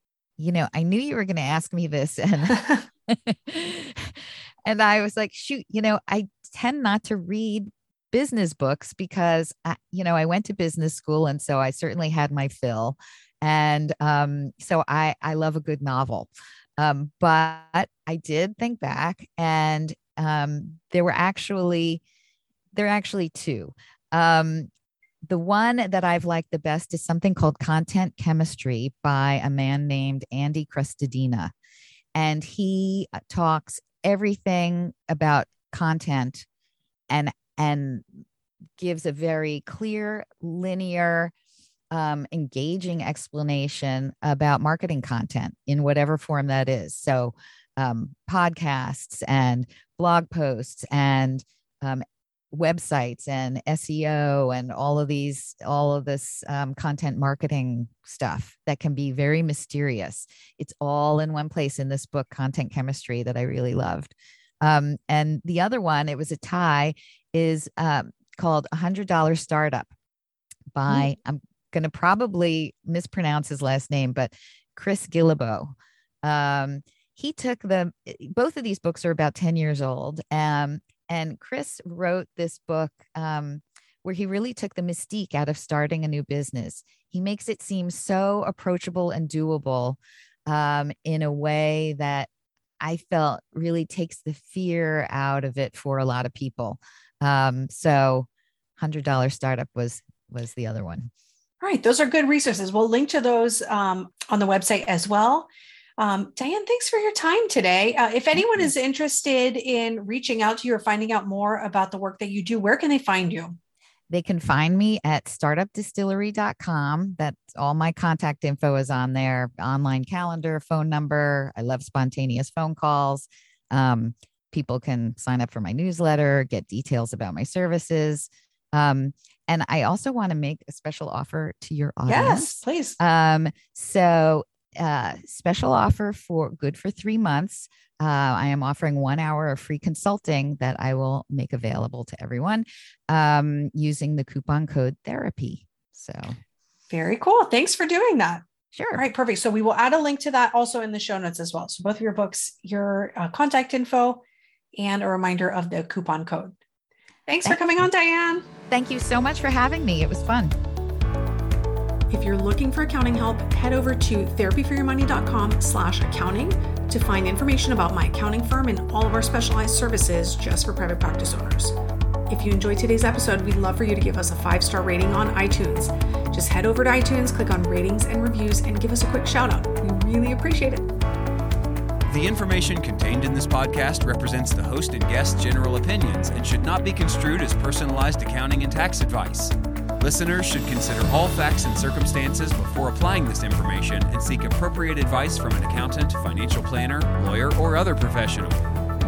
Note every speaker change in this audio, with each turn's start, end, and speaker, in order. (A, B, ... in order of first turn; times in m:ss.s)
0:00.4-0:04.1 A
0:04.6-0:22.0 A
0:22.7-0:24.7 A
0:25.2-0:31.5 A
0:32.1-0:36.4 A
0:37.1-0:38.0 A
0:38.8-0:41.3 A
0:41.9-1:09.9 A
1:10.7-1:32.3 A
1:32.8-1:41.1 A
1:41.6-1:53.6 B
1:48.3-1:48.7 A
1:54.1-2:26.4 A
2:12.1-2:13.0 B
2:26.9-2:28.4 B
2:28.7-2:29.0 A
2:28.9-2:34.2 B
2:34.8-2:36.5 B
2:37.3-2:38.4 B
2:37.4-2:37.8 A
2:38.7-2:40.5 A
2:42.1-2:51.8 B
2:52.3-3:00.9 B
3:02.1-3:18.6 C